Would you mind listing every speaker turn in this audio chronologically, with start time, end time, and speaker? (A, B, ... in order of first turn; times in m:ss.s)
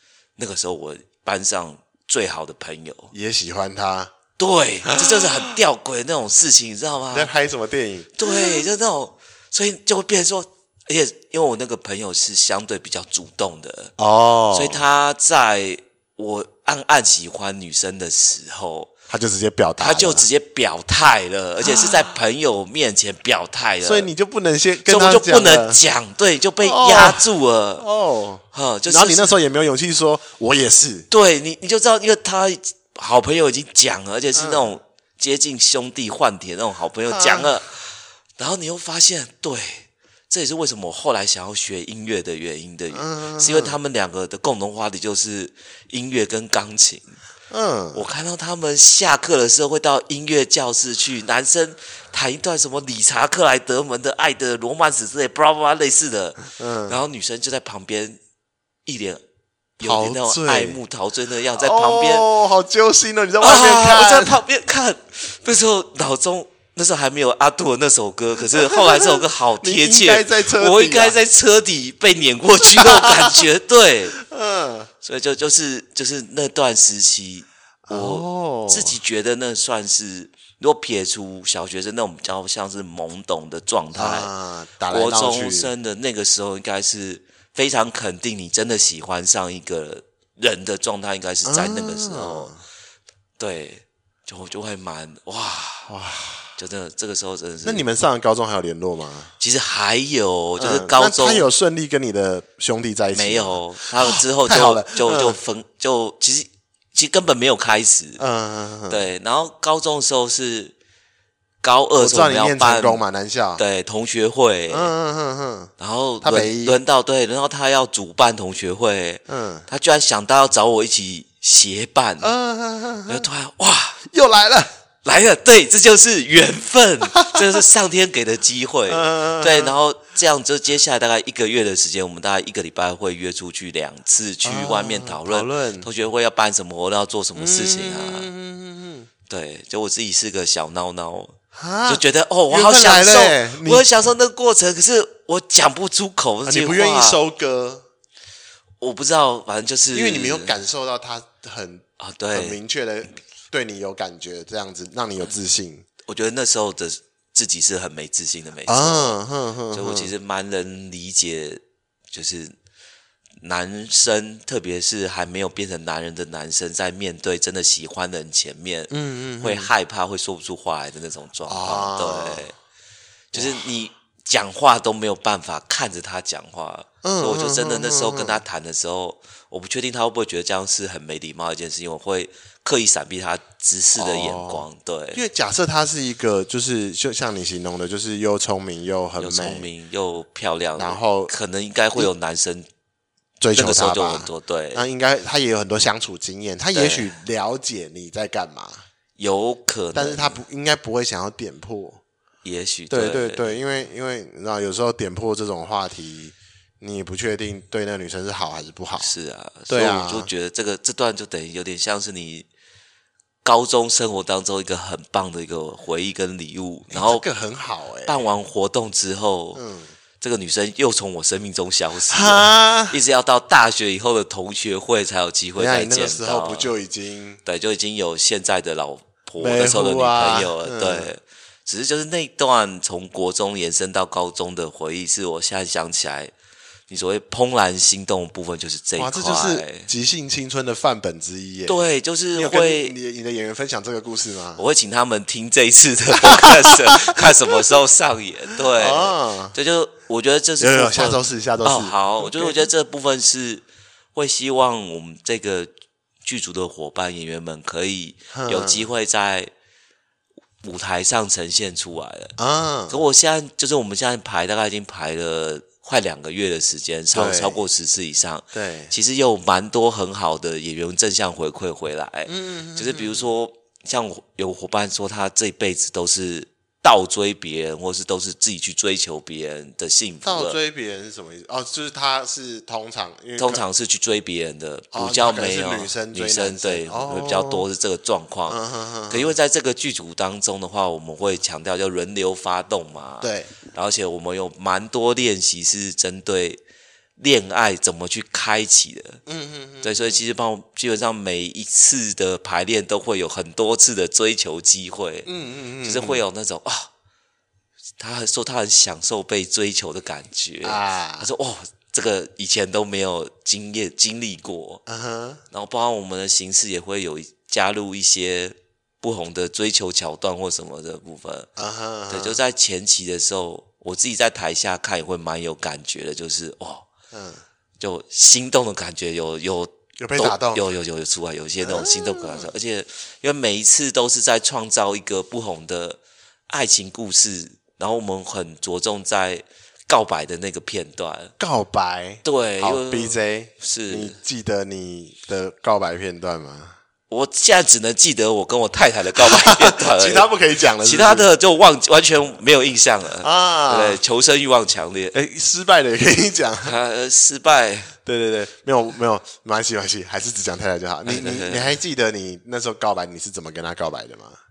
0:00.4-0:03.1 A
0:03.1-0:04.1 B
0:04.4-0:07.3 A
0:04.8-0:05.6 B
0:07.1-0:08.6 B
0:08.1-0:13.9 A
0:14.0-0:14.8 B
0:14.5-0:18.9 A
0:19.1-0:20.2 B
0:19.8-0:24.1 A
0:21.6-0:22.0 B
0:23.8-0:25.8 B
0:24.8-0:27.8 A
0:26.6-0:31.1 B
0:28.5-0:29.3 A
0:31.1-0:47.1 A
0:34.3-0:34.7 B
0:37.1-0:37.5 B
0:42.9-0:43.8 B
0:47.5-0:48.0 B
0:47.9-0:58.2 A
0:56.4-0:57.0 B
0:58.8-0:59.2 A
0:59.8-1:02.3 A
0:59.8-1:00.8 B
1:01.5-1:04.4 B
1:03.4-1:14.2 A
1:08.6-1:11.2 B
1:12.7-1:13.4 B
1:14.2-1:14.9 B
1:15.0-1:24.3 A
1:17.9-1:18.9 B
1:23.9-1:25.7 B
1:24.9-1:32.5 A
1:31.4-1:32.6 B
1:33.4-1:35.9 A
1:35.9-1:36.5 B
1:36.6-1:37.8 A
1:37.6-1:39.3 B
1:39.4-1:41.5 A
1:40.6-1:45.4 B
1:43.1-1:48.2 A
1:48.2-1:49.0 B
1:48.9-1:50.7 A
1:51.6-1:53.0 A
1:52.0-1:53.6 B
1:53.6-1:54.9 A
1:54.7-1:55.7 B
1:55.8-2:02.3 A
1:56.2-1:56.8 B
1:59.3-1:59.7 B
2:02.2-2:03.3 B
2:03.1-2:04.0 A
2:04.1-2:04.7 B
2:05.0-2:18.3 A
2:07.1-2:07.4 B
2:08.9-2:09.8 B
2:14.4-2:15.9 B
2:17.4-2:19.1 B
2:19.3-2:21.3 A
2:21.5-2:23.9 B
2:21.9-2:27.2 A
2:26.4-2:27.8 B
2:28.8-2:30.5 A
2:29.9-2:35.8 B
2:32.0-2:32.6 A
2:36.0-2:39.2 A
2:38.6-2:40.1 B
2:39.7-2:42.5 A
2:43.4-2:52.5 A
2:48.9-2:49.7 B
2:51.5-2:52.5 B
2:53.3-3:05.2 A
2:53.3-2:53.6 B
2:57.0-2:58.4 B
3:04.0-3:09.7 B
3:09.2-3:12.7 A
3:10.8-3:11.3 B
3:13.4-3:18.8 B
3:13.5-3:14.8 A
3:16.7-3:17.1 A
3:19.2-3:20.4 A
3:19.9-3:22.0 B
3:22.4-3:23.5 A
3:22.9-3:29.1 B
3:29.0-3:32.5 A
3:29.7-3:30.3 B
3:33.4-3:37.2 A
3:36.9-3:38.2 B
3:38.0-3:39.6 A
3:39.5-3:39.9 B
3:40.2-3:46.7 A
3:42.1-3:43.0 B
3:45.6-3:47.4 B
3:47.4-3:56.3 A
3:49.4-3:51.1 B
3:56.9-3:59.9 A
3:59.0-4:04.6 B
4:01.6-4:02.9 A
4:04.6-4:13.6 A
4:06.2-4:07.6 B
4:08.7-4:09.5 B
4:10.6-4:12.6 B
4:14.1-4:15.7 A
4:16.2-4:19.5 A
4:18.3-4:18.9 B
4:20.6-4:22.3 A
4:22.4-4:23.0 B
4:22.9-4:40.6 A
4:27.1-4:27.6 B
4:28.5-4:28.9 B
4:32.3-4:33.3 B
4:40.2-4:43.6 B
4:43.4-4:48.6 A
4:44.9-4:47.6 B
4:48.5-4:49.3 B
4:49.1-4:56.6 A
4:53.2-4:53.5 B
4:57.2-4:59.2 A
4:59.3-5:00.2 B
4:59.8-5:05.3 A
5:05.2-5:06.2 B
5:05.8-5:06.9 A
5:08.0-5:14.8 A
5:10.6-5:11.3 B
5:14.9-5:15.4 B
5:15.5-5:21.5 A
5:21.6-5:22.4 B
5:22.1-5:26.8 A
5:27.1-5:27.4 B
5:27.8-5:41.3 A
5:30.0-5:30.6 B
5:31.6-5:32.5 B
5:41.4-5:46.8 B
5:42.2-5:44.2 A
5:47.1-5:50.3 A
5:49.2-5:51.3 B
5:50.8-5:55.1 A
5:53.2-5:54.0 B
5:55.1-5:56.8 B
5:56.6-5:57.9 A
5:58.0-6:04.4 B
6:01.0-6:01.8 A